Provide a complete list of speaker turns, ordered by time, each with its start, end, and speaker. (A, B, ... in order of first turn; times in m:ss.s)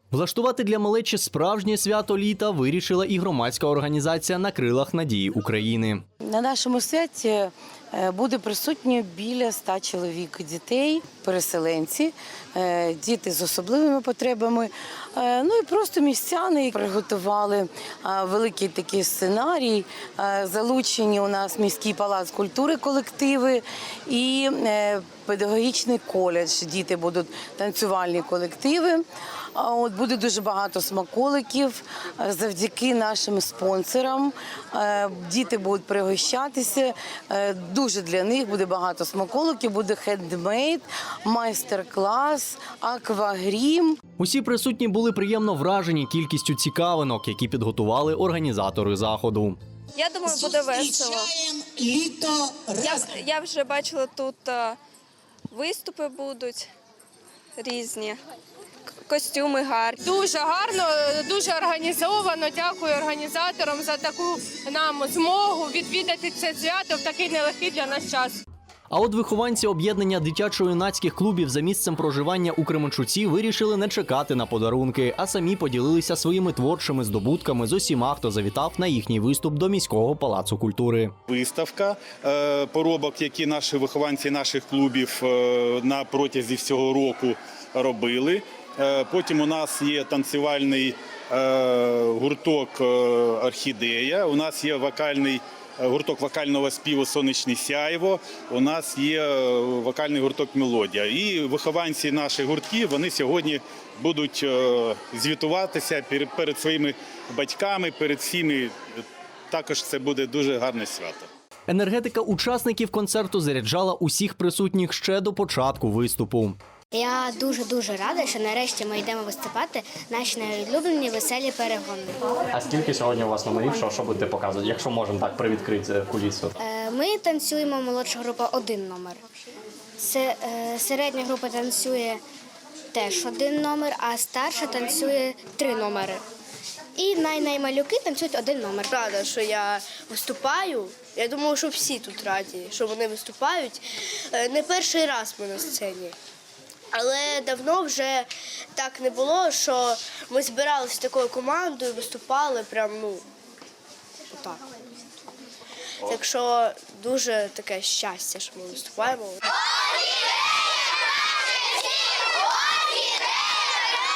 0:00.1-0:06.0 A
0:06.2-0:29.0 B
0:29.6-0:44.0 B
0:44.2-0:49.6 A
0:50.0-0:51.3 C
0:52.7-0:54.8 C
0:55.5-0:56.7 C
0:57.6-0:58.2 C
0:59.0-1:00.0 C
1:00.1-1:08.1 D
1:08.9-1:21.1 A
1:21.3-1:51.3 E
1:51.7-1:56.6 A
1:56.9-2:02.2 F
2:02.5-2:06.6 G
2:06.6-2:09.2 F
2:10.0-2:12.2 F
2:12.9-2:16.2 F
2:17.0-2:18.9 F
2:18.9-2:26.1 H
2:26.9-2:33.2 H
2:36.1-2:39.4 H